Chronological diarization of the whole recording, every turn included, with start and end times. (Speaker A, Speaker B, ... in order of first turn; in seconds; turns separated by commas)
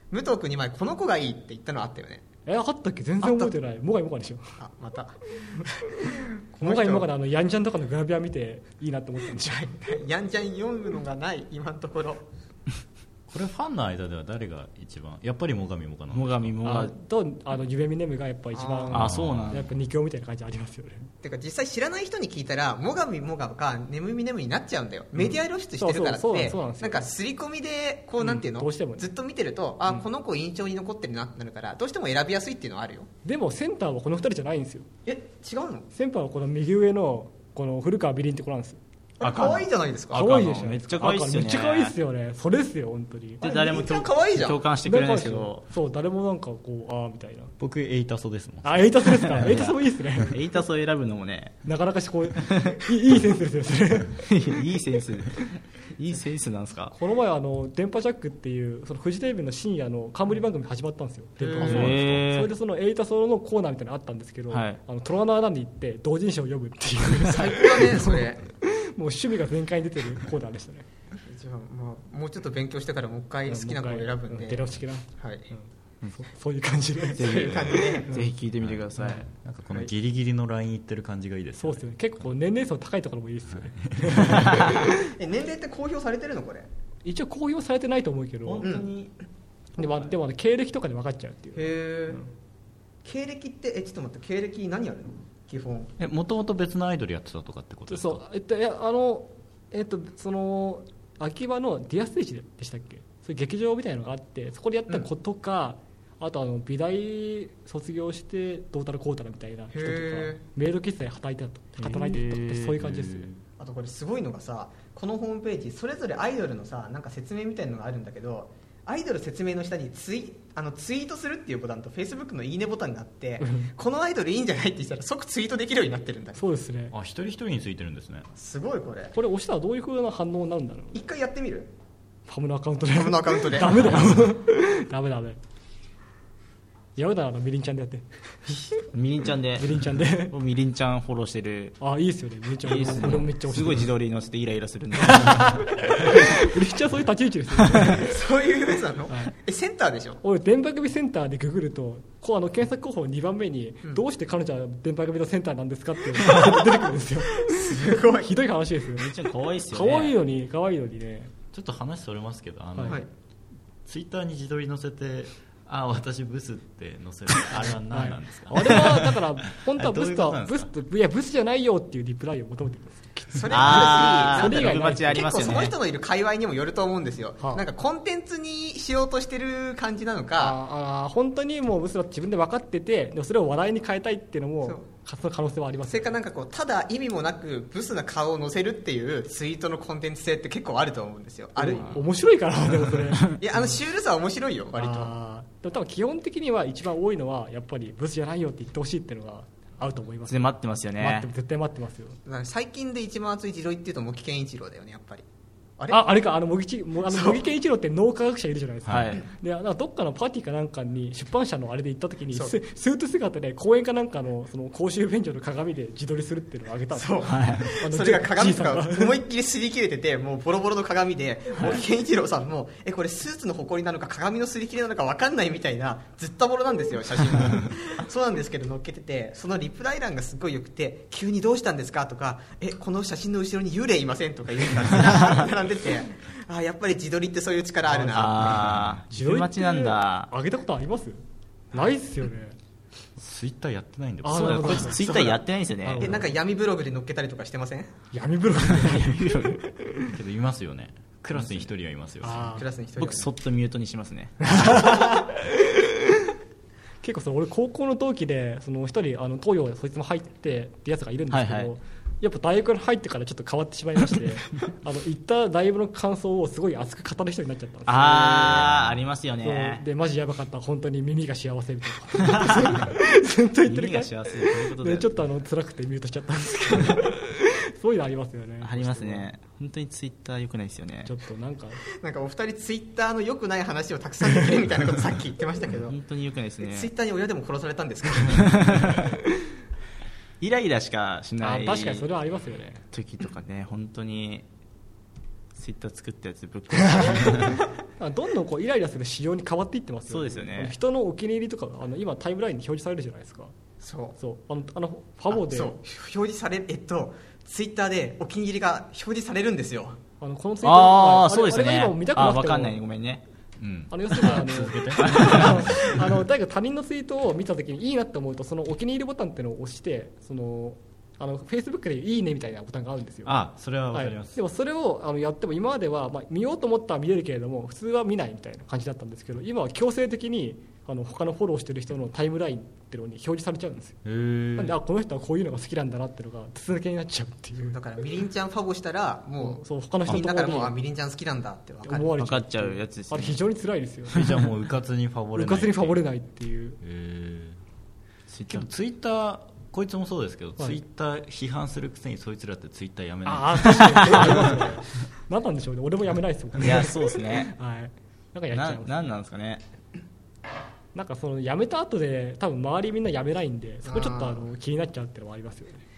Speaker A: 0.1-2.2, Speaker B: 2.5-4.5, Speaker A: 3.2-3.5, Speaker A: 4.6-7.1, Speaker B: 6.0-9.7, Speaker A: 9.4-12.2, Speaker C: 13.3-16.5, Speaker D: 16.1-16.9, Speaker B: 16.6-21.1, Speaker A: 18.5-19.2, Speaker D: 18.9-19.7, Speaker C: 19.0-19.6, Speaker A: 21.2-33.1, Speaker B: 25.8-27.1, Speaker B: 28.2-29.1, Speaker B: 33.2-34.9, Speaker A: 35.1-35.9, Speaker B: 35.9-38.8, Speaker A: 39.2-40.3, Speaker D: 39.2-42.0, Speaker B: 40.1-43.5, Speaker A: 43.4-44.6, Speaker D: 43.4-45.6, Speaker B: 44.9-47.5, Speaker C: 47.6-49.5, Speaker B: 48.6-50.4, Speaker D: 49.2-51.6, Speaker B: 51.6-54.3, Speaker D: 52.4-52.8, Speaker D: 54.3-56.9, Speaker B: 56.9-70.9, Speaker A: 61.4-62.0, Speaker D: 61.6-62.5, Speaker D: 64.5-64.8, Speaker A: 67.2-68.5, Speaker A: 71.3-75.5, Speaker B: 73.5-78.3, Speaker A: 77.2-78.1, Speaker D: 77.2-79.2, Speaker C: 78.6-81.8, Speaker B: 79.0-79.2, Speaker B: 81.6-85.0, Speaker C: 83.6-84.6, Speaker A: 84.7-86.7, Speaker B: 87.0-88.7, Speaker D: 88.5-89.1, Speaker A: 88.6-88.9, Speaker B: 89.8-92.3, Speaker A: 91.6-92.2, Speaker A: 93.0-95.9, Speaker C: 96.0-98.2, Speaker B: 97.9-113.3, Speaker A: 109.7-110.4, Speaker D: 111.8-112.8, Speaker C: 112.8-113.4, Speaker A: 113.6-126.4, Speaker B: 123.4-123.7, Speaker B: 126.4-126.9, Speaker C: 126.9-128.3, Speaker A: 128.4-129.2, Speaker B: 129.2-131.0, Speaker A: 130.9-131.7, Speaker B: 132.3-135.4, Speaker A: 132.9-134.2, Speaker B: 137.0-138.8, Speaker D: 138.9-139.7, Speaker B: 139.6-140.3, Speaker D: 140.3-141.8, Speaker B: 141.8-143.9, Speaker D: 142.6-146.4, Speaker B: 145.0-148.1, Speaker A: 147.9-150.2, Speaker B: 149.1-149.3, Speaker B: 150.2-159.1, Speaker A: 157.4-158.3, Speaker D: 159.0-160.2, Speaker B: 159.7-161.3, Speaker C: 161.5-163.1, Speaker C: 163.9-170.7, Speaker B: 167.9-175.3, Speaker A: 173.3-180.6, Speaker D: 173.5-175.8, Speaker B: 180.4-186.1, Speaker A: 185.9-192.0, Speaker B: 191.6-193.8, Speaker A: 193.4-195.1, Speaker B: 194.8-200.5, Speaker D: 200.3-201.3, Speaker B: 201.0-202.2, Speaker A: 202.2-205.3, Speaker A: 205.8-206.0, Speaker B: 205.9-219.1, Speaker A: 207.1-207.4, Speaker C: 208.9-209.2, Speaker D: 208.9-209.2, Speaker A: 216.9-238.6, Speaker D: 217.2-217.7, Speaker D: 221.6-221.8, Speaker D: 238.0-240.3, Speaker C: 238.5-239.0, Speaker B: 239.1-242.6, Speaker C: 243.2-245.0, Speaker B: 244.2-245.3, Speaker D: 244.3-246.2, Speaker A: 245.0-245.4, Speaker B: 245.8-246.3, Speaker A: 246.0-247.9, Speaker B: 248.1-250.1, Speaker D: 248.7-249.6, Speaker C: 250.1-252.6, Speaker D: 251.4-251.6, Speaker B: 252.2-252.7, Speaker A: 252.5-253.3, Speaker D: 253.0-254.8, Speaker B: 254.4-255.9, Speaker B: 257.0-268.7, Speaker D: 261.3-261.7, Speaker D: 267.9-269.8, Speaker C: 268.5-269.0, Speaker B: 269.4-279.3, Speaker D: 272.3-272.7, Speaker D: 273.6-275.1, Speaker D: 278.6-281.1, Speaker B: 281.1-281.8, Speaker A: 282.0-286.0, Speaker D: 285.8-286.9, Speaker A: 286.6-289.0, Speaker D: 288.3-289.0, Speaker D: 290.4-292.1, Speaker B: 291.4-292.8, Speaker D: 292.9-294.4, Speaker D: 295.6-297.5, Speaker B: 296.8-303.5, Speaker D: 300.1-300.8, Speaker A: 303.8-304.2, Speaker B: 304.2-305.7, Speaker A: 305.3-310.0, Speaker B: 310.2-312.8, Speaker D: 310.6-313.2, Speaker C: 313.6-316.0, Speaker B: 313.9-323.4, Speaker D: 315.0-315.6, Speaker C: 323.2-324.4, Speaker B: 323.9-334.0, Speaker C: 334.1-334.8, Speaker B: 334.6-337.8, Speaker A: 337.7-342.1, Speaker B: 339.4-340.8, Speaker B: 341.9-344.3, Speaker D: 342.2-343.4, Speaker C: 344.1-346.0, Speaker B: 345.4-346.8, Speaker C: 346.8-347.6, Speaker D: 348.3-348.7, Speaker C: 348.5-354.7, Speaker B: 353.3-359.1, Speaker D: 356.6-357.5, Speaker D: 358.5-359.6, Speaker B: 360.9-365.8, Speaker A: 363.9-364.5